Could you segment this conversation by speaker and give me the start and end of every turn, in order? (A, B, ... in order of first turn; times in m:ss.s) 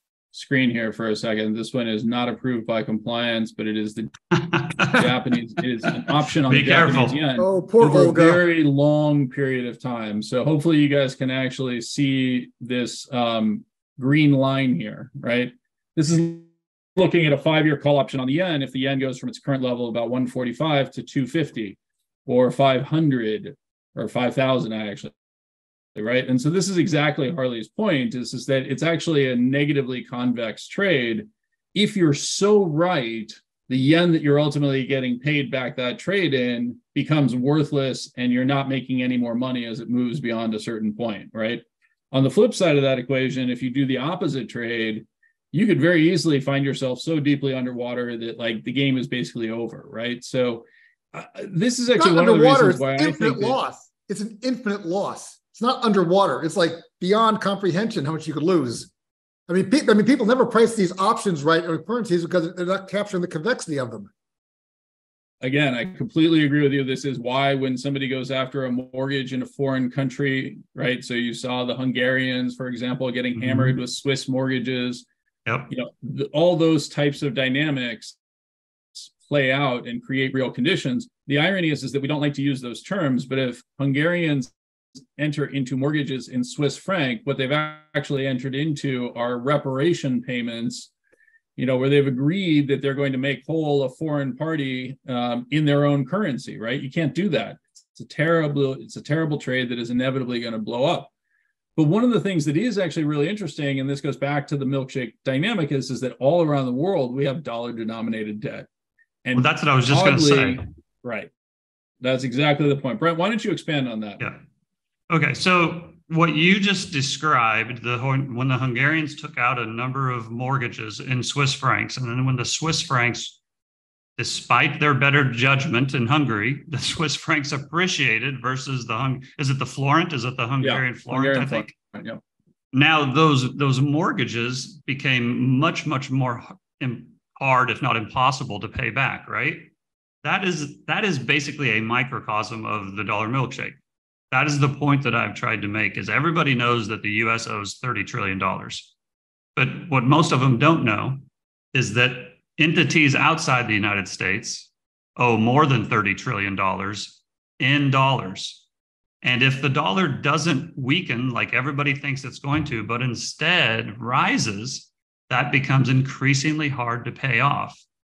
0:00.3-0:04.2 A
0:04.3-0:05.1 B
0:04.9-0:25.1 A
0:05.9-0:07.2 B
0:07.4-0:08.4 C
0:26.0-0:53.6 A
0:51.9-0:58.9 C
0:59.5-1:04.1 C
1:05.4-1:15.1 A
1:13.4-1:13.8 B
1:15.7-1:18.2 A
1:19.0-1:24.5 A
1:25.2-1:30.9 A
1:31.6-1:41.1 A
1:41.8-1:48.7 A
1:49.2-1:51.3 A
1:49.3-1:50.6 B
1:52.0-1:54.2 A
1:55.1-2:03.4 B
2:04.2-2:11.7 B
2:10.6-2:12.2 A
2:12.7-2:19.7 B
2:20.2-2:23.8 B
2:24.3-2:28.9 B
2:29.6-2:38.6 B
2:39.2-2:47.8 B